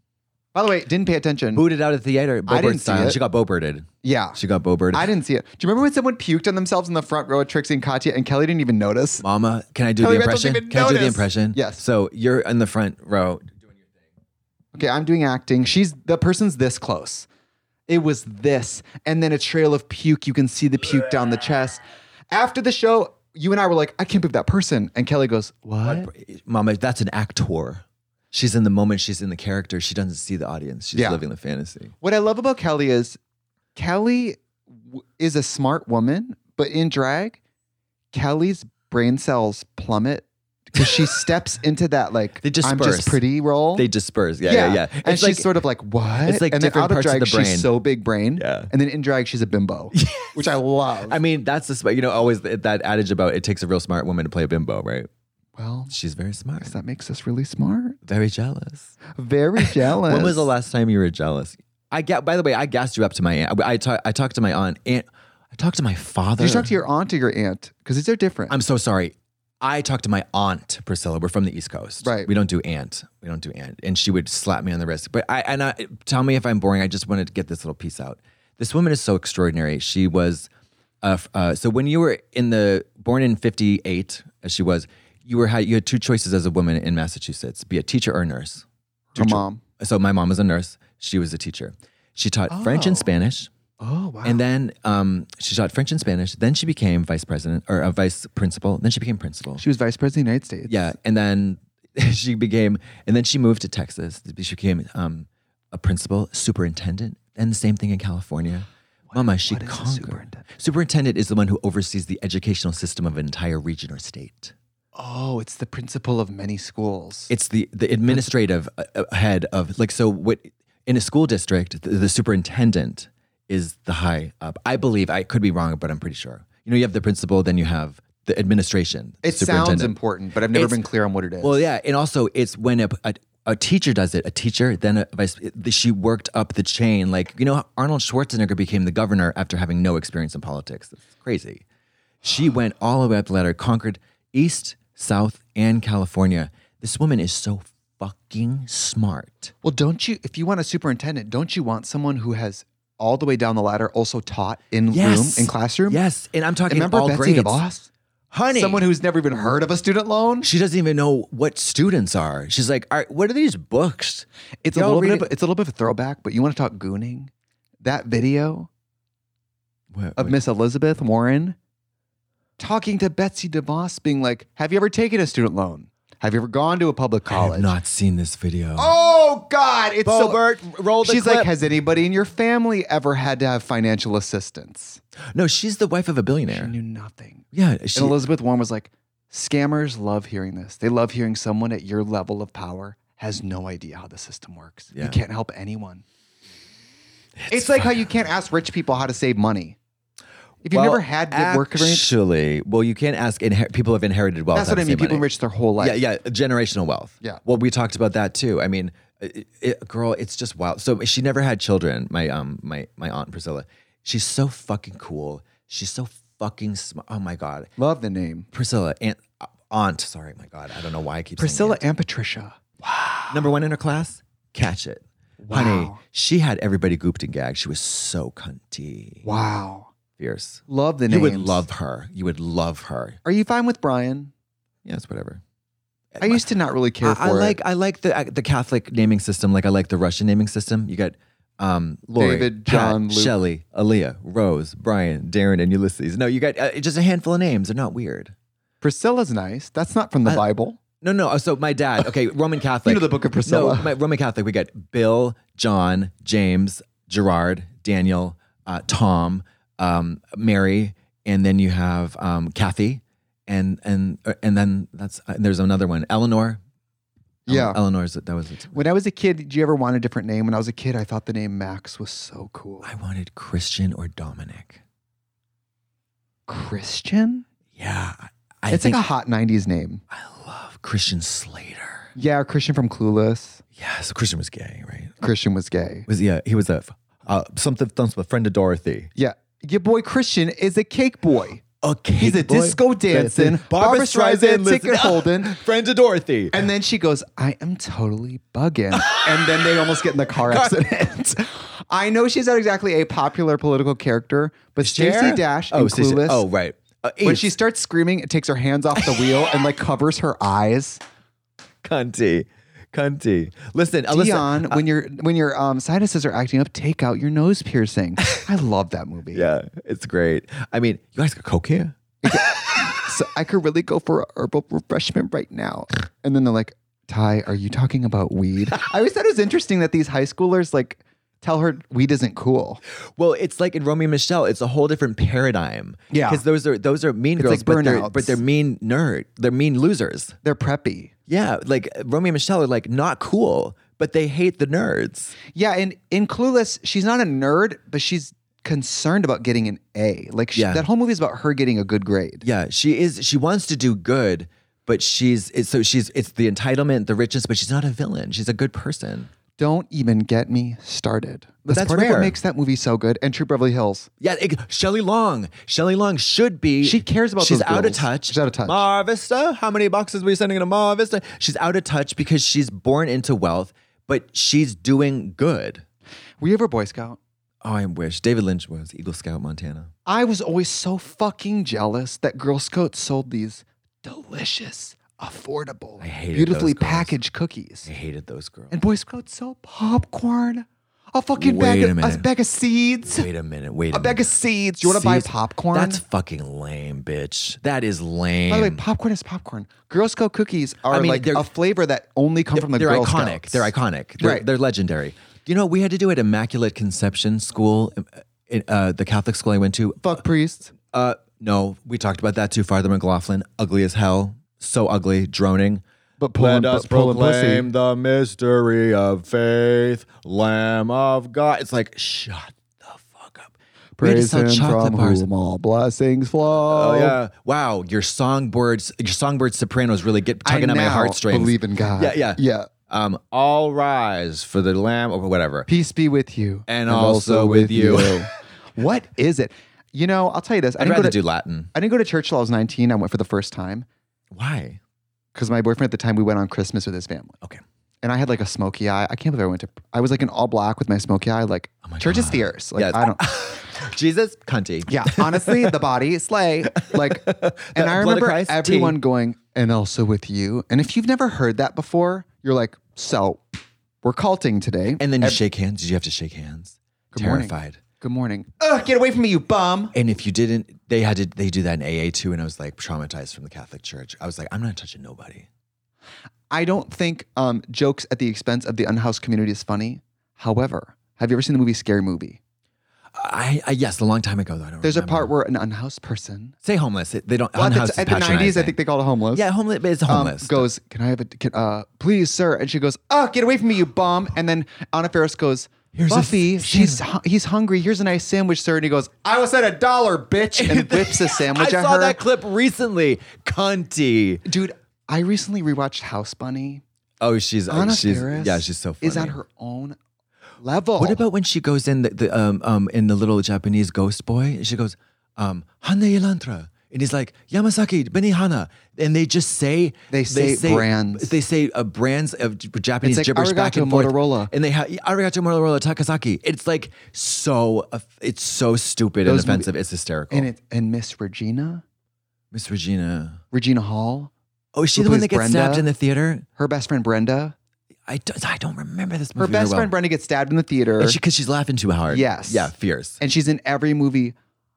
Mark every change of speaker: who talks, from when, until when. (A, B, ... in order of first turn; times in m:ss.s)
0:00.5-0:01.7 A
0:01.5-0:05.1 B
0:02.5-0:03.2 A
0:04.0-0:04.4 A
0:04.9-0:09.2 A
0:09.2-0:13.8 B
0:10.0-0:11.8 A
0:14.7-0:17.3 A
0:17.9-0:26.1 A
0:25.8-0:31.9 B
0:30.9-0:31.2 A
0:32.0-0:33.2 A
0:33.8-0:37.4 A
0:38.1-0:43.9 A
0:40.8-0:41.1 B
0:42.4-0:43.2 B
0:43.7-0:45.5 B
0:44.4-0:51.2 A
0:46.2-0:47.7 B
0:48.4-0:48.7 B
0:49.9-0:55.1 B
0:55.6-0:55.9 A
0:55.9-0:56.8 B
0:56.6-0:58.0 A
0:58.0-0:58.9 B
0:59.1-1:00.5 A
0:59.6-1:06.7 B
1:06.4-1:08.6 A
1:08.5-1:20.5 B
1:12.0-1:12.3 A
1:21.0-1:33.5 B
1:29.1-1:29.6 A
1:32.5-1:33.1 A
1:33.8-1:34.4 A
1:34.2-1:39.6 B
1:39.6-1:40.9 A
1:40.7-1:54.5 B
1:49.1-1:50.4 A
1:54.9-1:57.3 A
1:57.3-2:09.9 B
2:09.2-2:11.6 A
2:10.5-2:10.8 B
2:11.4-2:21.6 B
2:22.2-2:29.5 B
2:29.6-2:36.0 A
2:34.9-2:37.6 B
2:36.7-2:37.9 A
2:38.3-2:38.9 B
2:38.5-2:40.5 A
2:40.4-2:45.3 B
2:44.6-2:48.7 A
2:49.9-2:50.4 B
2:50.2-2:51.6 A
2:52.6-2:57.7 A
2:57.3-2:58.9 B
2:58.8-3:00.4 A
3:00.0-3:01.5 B
3:01.0-3:05.0 A
3:05.3-3:06.7 B
3:06.5-3:16.0 A
3:07.5-3:08.2 B
3:14.9-3:15.2 B
3:17.4-3:18.0 B
3:17.5-3:19.8 A
3:20.6-3:22.1 A
3:20.7-3:25.3 B
3:24.5-3:26.0 A
3:25.8-3:37.7 B
3:37.8-3:38.5 A
3:38.5-3:41.8 B
3:41.4-3:43.3 A
3:43.3-3:49.3 B
3:45.4-3:46.0 A
3:49.2-3:49.9 A
3:50.2-3:53.2 B
3:50.7-3:51.6 A
3:53.2-3:54.3 A
3:54.8-3:55.4 B
3:56.1-3:56.5 B
3:56.2-3:57.6 A
3:57.0-4:08.3 B
4:02.1-4:03.3 A
4:08.8-4:10.8 A
4:11.0-4:26.6 B
4:12.8-4:13.9 A
4:27.5-4:27.8 A
4:27.5-4:28.8 B
4:28.7-4:32.9 A
4:32.8-4:34.8 B
4:36.5-4:37.4 A
4:37.8-4:39.0 B
4:38.7-4:40.0 A
4:40.1-4:42.1 B
4:42.1-4:43.6 A
4:43.8-4:45.2 B
4:45.2-4:46.1 A
4:46.1-4:49.1 B
4:49.2-4:51.6 A
4:51.8-4:56.7 B
4:52.2-4:55.6 A
4:56.5-5:06.4 A
4:58.9-4:59.8 B
5:00.3-5:00.9 B
5:04.8-5:07.6 B
5:07.2-5:11.0 A
5:09.0-5:09.3 B
5:11.8-5:14.8 B
5:14.1-5:19.4 A
5:19.3-5:22.9 B
5:22.2-5:32.8 A
5:33.2-5:40.4 B
5:36.1-5:36.4 A
5:37.4-5:38.4 A
5:40.4-5:41.1 A
5:41.3-5:45.4 B
5:45.5-5:52.4 A
5:50.5-5:50.9 B
5:52.4-5:59.3 B
5:59.6-6:04.1 A
6:01.7-6:02.4 B
6:04.2-6:15.8 B
6:06.8-6:08.8 A
6:16.4-6:17.2 A
6:17.6-6:19.9 B
6:20.0-6:27.9 A
6:26.0-6:27.2 B
6:27.8-6:28.8 B
6:28.7-6:33.3 A
6:31.4-6:32.3 B
6:33.0-6:38.8 B
6:33.9-6:36.0 A
6:38.5-6:44.4 A
6:40.8-6:41.5 B
6:42.5-6:50.2 B
6:50.0-6:50.7 A
6:50.9-6:55.8 B
6:56.2-6:57.7 A
6:56.3-7:05.2 B
7:04.0-7:07.2 A
7:06.5-7:15.7 B
7:10.4-7:12.7 A
7:15.7-7:21.2 A
7:16.7-7:18.3 B
7:20.8-7:21.7 B
7:21.7-7:23.9 A
7:24.3-7:24.8 B
7:25.3-7:27.4 A
7:28.0-7:33.2 A
7:31.8-7:35.8 B
7:34.9-7:43.4 A
7:36.7-7:39.0 B
7:44.0-7:45.4 A
7:45.0-7:47.8 B
7:47.1-7:49.9 A
7:49.9-7:55.5 B
7:56.5-8:02.4 A
8:03.1-8:05.3 B
8:04.8-8:06.5 A
8:06.6-8:08.8 B
8:07.6-8:09.5 A
8:09.3-8:10.7 B
8:10.1-8:22.2 A
8:15.9-8:17.0 B
8:20.6-8:24.4 B
8:24.4-8:26.8 A
8:27.2-8:29.4 B
8:27.7-8:30.0 A
8:30.6-8:31.2 A
8:31.0-8:50.5 B
8:40.1-8:41.3 A
8:43.0-8:44.5 A
8:49.2-8:49.7 A
8:50.3-8:51.8 A
8:52.5-8:53.4 B
8:53.5-8:54.3 A
8:54.7-8:56.4 B
8:54.9-8:55.9 A
8:56.6-8:57.5 A
8:58.1-8:59.9 B
8:59.4-9:01.2 A
9:01.0-9:03.2 B
9:02.1-9:04.3 A